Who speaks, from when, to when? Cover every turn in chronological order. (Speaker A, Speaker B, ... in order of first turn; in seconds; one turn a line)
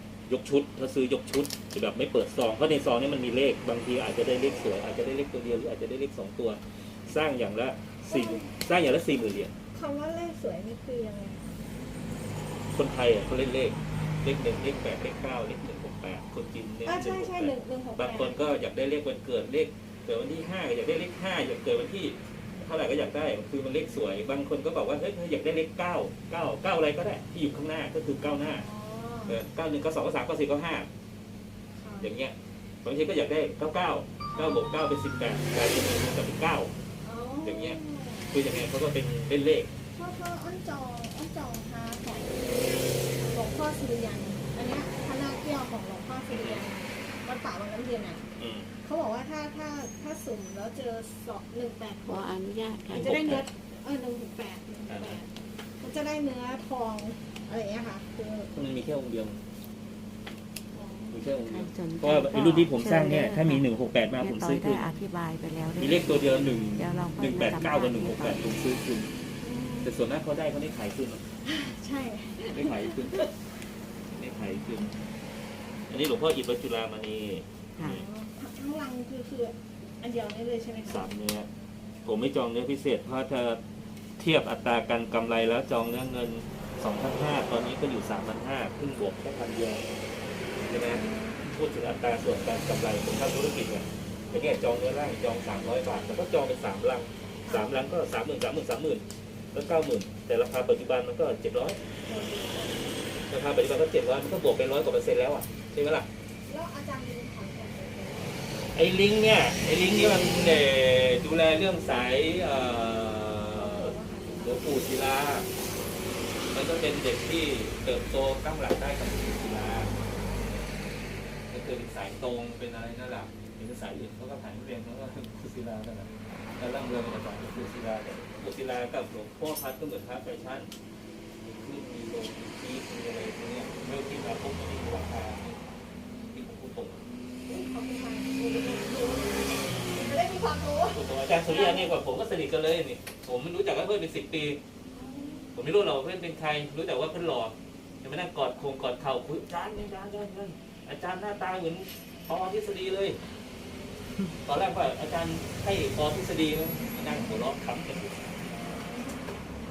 Speaker A: 0.3-9.5
Speaker B: 8.1-8.5
Speaker B: 9.7-11.5
Speaker A: 12.7-28.6
Speaker B: 16.8-18.4
Speaker B: 28.5-29.4
Speaker A: 29.3-30.9
Speaker B: 31.7-32.1
Speaker A: 32.0-36.7
Speaker B: 34.3-34.6
Speaker B: 37.0-38.6
Speaker A: 37.4-37.8
Speaker A: 38.3-39.7
Speaker B: 39.9-48.2
Speaker A: 46.3-46.7
Speaker A: 48.4-48.7
Speaker B: 48.8-52.3
Speaker C: 52.0-53.2
Speaker A: 52.9-53.5
Speaker B: 52.9-58.5
Speaker A: 54.9-55.2
Speaker A: 58.5-59.4
Speaker B: 60.7-61.3
Speaker A: 61.1-64.9
Speaker C: 61.5-68.4
Speaker A: 65.8-69.1
Speaker B: 69.4-69.9
Speaker A: 69.8-71.2
Speaker B: 71.4-73.3
Speaker A: 72.5-73.3
Speaker A: 74.1-75.0
Speaker A: 75.9-78.1
Speaker B: 77.8-81.1
Speaker A: 80.8-81.5
Speaker A: 82.0-83.6
Speaker A: 84.2-89.8
Speaker A: 90.7-101.8
Speaker B: 90.8-91.4
Speaker B: 97.4-97.8
Speaker B: 102.0-103.1
Speaker A: 103.3-106.1
Speaker B: 106.5-108.5
Speaker A: 108.7-115.5
Speaker B: 113.5-114.8
Speaker A: 116.5-119.9
Speaker B: 119.9-120.3
Speaker A: 121.5-130.7
Speaker A: 131.4-135.4
Speaker A: 136.3-137.0
Speaker B: 137.4-141.9
Speaker A: 140.9-144.6
Speaker B: 144.9-145.5
Speaker A: 145.5-153.2
Speaker A: 154.4-158.4
Speaker B: 158.4-159.4